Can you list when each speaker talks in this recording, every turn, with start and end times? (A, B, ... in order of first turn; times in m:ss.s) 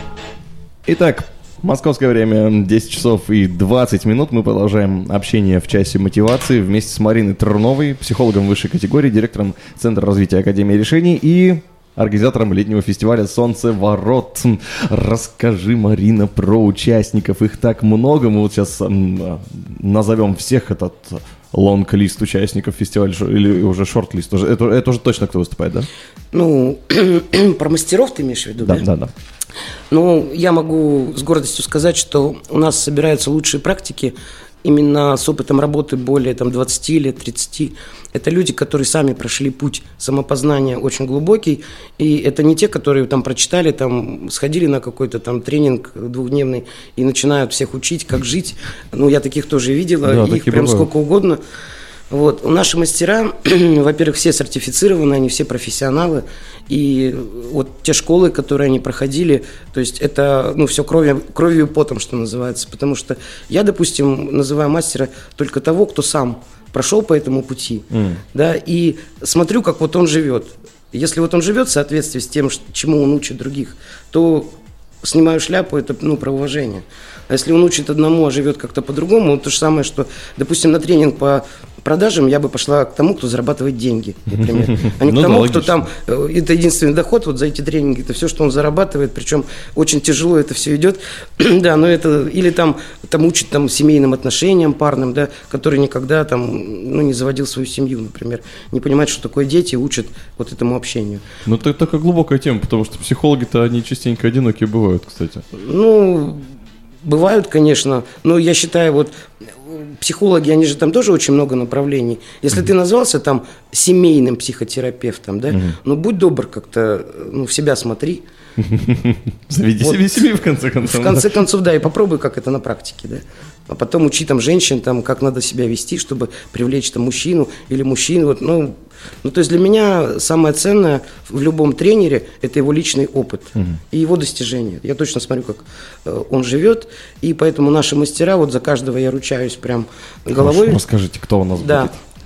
0:00.8-0:25.9 A
0:26.3-0:28.8 B
0:28.6-0:29.1 A
0:29.9-0:51.4 B
0:50.0-0:50.9 A
0:52.1-1:14.5 B
1:07.9-1:08.2 A
1:15.0-1:41.2 B
1:24.3-1:25.8 A
1:41.4-1:45.4 A
1:45.6-1:46.4 B
1:47.0-1:58.2 B
1:58.6-2:01.4 A
1:59.8-2:00.2 B
2:00.8-2:20.8 B
2:20.3-2:22.0 A
2:21.6-2:21.9 B